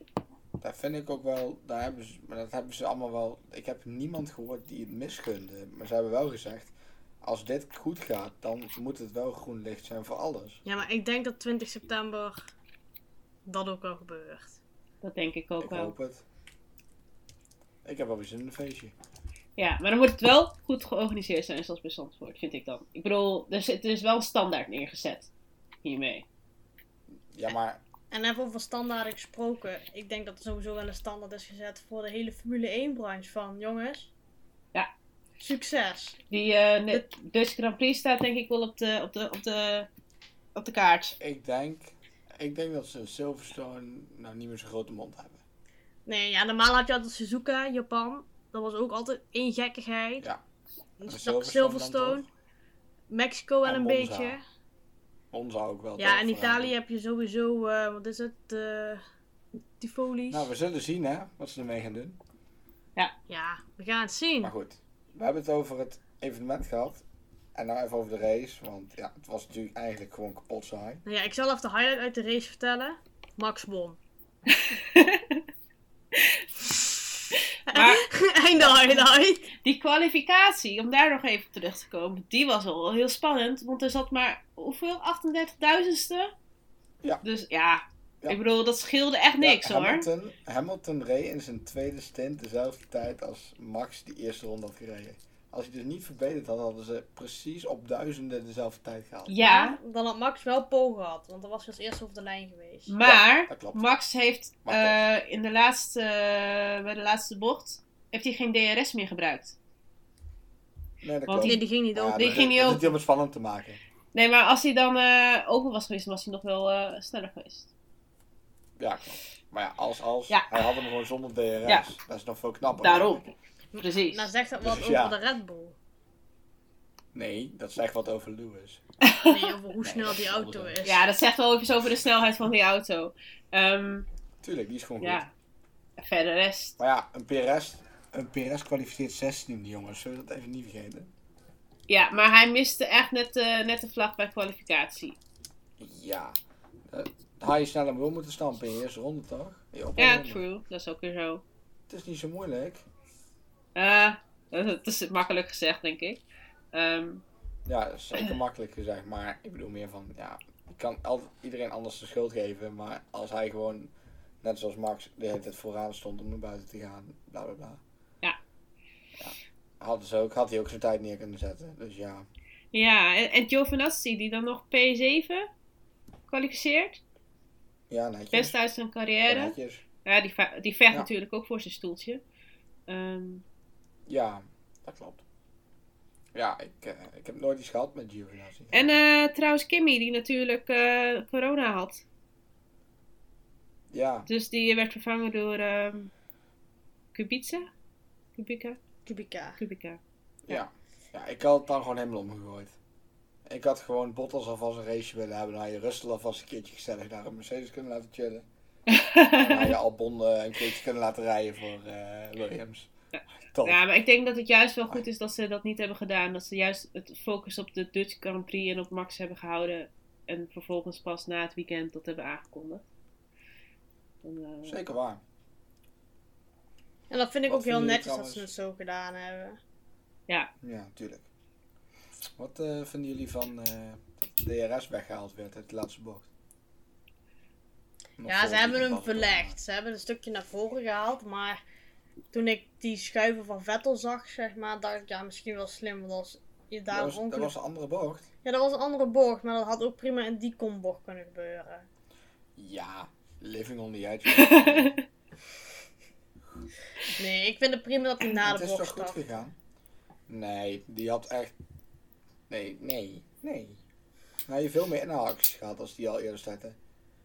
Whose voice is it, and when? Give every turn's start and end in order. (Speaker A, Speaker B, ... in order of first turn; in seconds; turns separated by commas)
Speaker A: 0.6-10.6, Speaker B: 10.7-12.5, Speaker B: 13.5-14.6, Speaker C: 15.0-15.9, Speaker A: 15.6-16.2, Speaker A: 17.9-18.9, Speaker C: 19.6-25.3, Speaker C: 25.8-26.2, Speaker A: 27.3-27.8, Speaker B: 28.1-34.1, Speaker B: 35.4-36.2, Speaker C: 36.3-39.9, Speaker C: 40.5-41.2, Speaker A: 41.2-45.4, Speaker B: 46.1-50.3, Speaker B: 51.0-52.3, Speaker A: 51.1-52.3, Speaker B: 53.1-54.4, Speaker A: 53.6-54.4, Speaker A: 55.3-56.7, Speaker B: 56.0-59.0, Speaker B: 59.8-60.5, Speaker A: 60.3-62.2, Speaker B: 63.3-64.5, Speaker A: 64.4-67.0, Speaker A: 67.5-71.0, Speaker B: 71.0-74.0, Speaker C: 74.7-75.4, Speaker C: 76.1-76.4, Speaker C: 77.3-78.0, Speaker B: 77.7-79.5, Speaker A: 78.5-78.9, Speaker C: 79.6-86.3, Speaker C: 87.2-90.1, Speaker A: 89.4-99.3, Speaker C: 99.3-99.8, Speaker B: 99.4-102.9, Speaker C: 102.9-109.6, Speaker A: 103.0-103.8, Speaker A: 104.7-105.0, Speaker A: 111.0-113.8, Speaker C: 111.3-111.6, Speaker B: 111.4-112.5, Speaker C: 112.2-113.0, Speaker C: 114.1-117.7, Speaker A: 118.8-123.3, Speaker C: 120.3-120.6, Speaker C: 122.8-123.3, Speaker B: 123.7-125.8, Speaker C: 123.8-124.3, Speaker A: 124.6-125.2, Speaker A: 127.1-128.8, Speaker C: 129.1-129.5, Speaker B: 129.2-131.1, Speaker A: 129.8-130.8, Speaker C: 130.8-134.1, Speaker A: 134.4-135.2, Speaker C: 135.0-135.3, Speaker C: 136.0-136.8, Speaker A: 136.8-141.1, Speaker C: 141.9-145.2, Speaker A: 145.8-146.4, Speaker A: 146.9-150.4, Speaker C: 150.0-151.4, Speaker A: 151.9-152.8, Speaker C: 153.8-156.2, Speaker C: 156.7-157.2, Speaker A: 157.7-167.8, Speaker A: 169.2-172.3, Speaker C: 172.7-175.5, Speaker C: 176.3-177.0, Speaker A: 177.9-178.6, Speaker C: 178.3-182.2, Speaker A: 179.3-179.8, Speaker C: 182.9-183.4, Speaker A: 184.1-185.2, Speaker A: 186.3-189.0, Speaker C: 188.7-192.0, Speaker A: 193.9-194.3, Speaker C: 194.3-196.1, Speaker C: 197.1-197.7, Speaker C: 198.4-198.8, Speaker B: 199.1-199.6, Speaker C: 199.6-200.0, Speaker A: 200.5-202.8, Speaker A: 203.5-208.5, Speaker C: 208.9-209.8, Speaker A: 209.4-212.9, Speaker A: 213.5-213.8, Speaker C: 213.7-222.8, Speaker C: 224.2-224.8, Speaker A: 224.7-225.2, Speaker B: 227.1-229.6, Speaker A: 227.5-228.5, Speaker A: 230.6-231.3, Speaker A: 232.4-236.3, Speaker A: 238.2-239.6, Speaker B: 238.3-241.6, Speaker B: 242.3-247.5, Speaker A: 246.9-248.3, Speaker B: 248.4-251.9, Speaker A: 252.6-255.0, Speaker C: 254.4-255.0, Speaker B: 257.1-259.5, Speaker A: 258.4-259.6, Speaker A: 260.3-261.6, Speaker A: 262.5-263.8, Speaker A: 264.5-266.8